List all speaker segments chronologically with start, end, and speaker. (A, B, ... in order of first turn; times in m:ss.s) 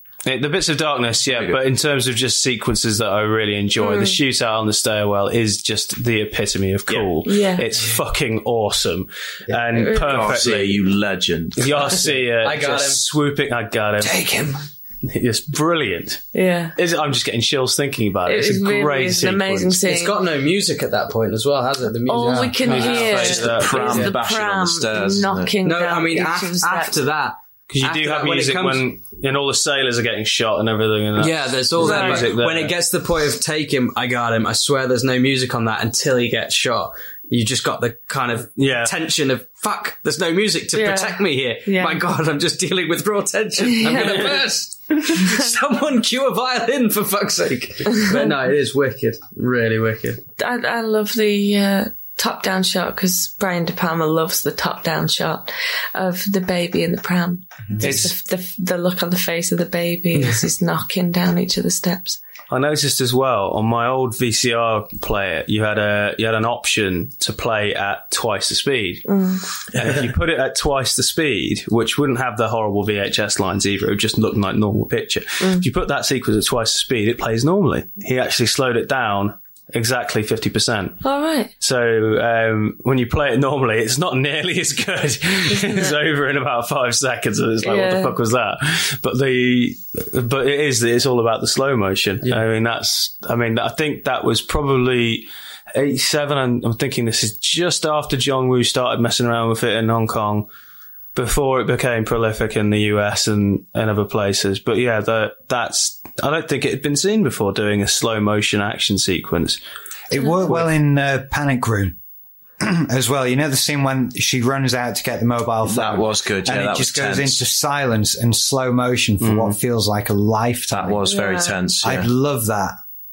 0:00.2-0:10.8 A
0:01.3-0:01.6 B
0:03.8-0:04.2 C
0:07.2-0:07.7 C
0:09.7-0:10.3 C
0:10.0-0:12.0 B
0:11.6-0:14.2 A
0:12.4-0:13.0 D
0:14.0-0:14.6 E
0:15.0-0:19.8 A
0:16.3-0:16.8 C
0:18.2-0:20.2 C
0:19.8-0:23.6 D
0:22.1-0:26.9 C
0:22.6-0:24.1 A
0:23.0-0:25.5 B
0:25.6-0:28.9 D
0:27.7-0:32.8 A
0:31.2-0:50.2 D
0:31.8-0:32.3 C
0:38.6-0:38.9 A
0:40.7-0:42.0 C
0:43.6-0:44.4 C
0:48.0-0:48.3 C
0:50.4-1:02.2 C
0:57.8-0:58.1 A
1:02.5-1:09.0 A
1:09.1-1:09.5 C
1:09.7-1:10.0 B
1:09.8-1:21.0 A
1:15.4-1:15.7 C
1:21.0-1:21.5 C
1:21.6-1:40.5 A
1:25.5-1:26.0 C
1:27.6-1:28.1 C
1:41.1-1:49.6 A
1:50.1-1:52.0 E
1:52.6-2:01.1 E
1:55.6-1:57.4 B
1:59.2-1:59.6 A
2:00.7-2:02.1 B
2:01.1-2:01.6 C
2:01.8-2:02.8 E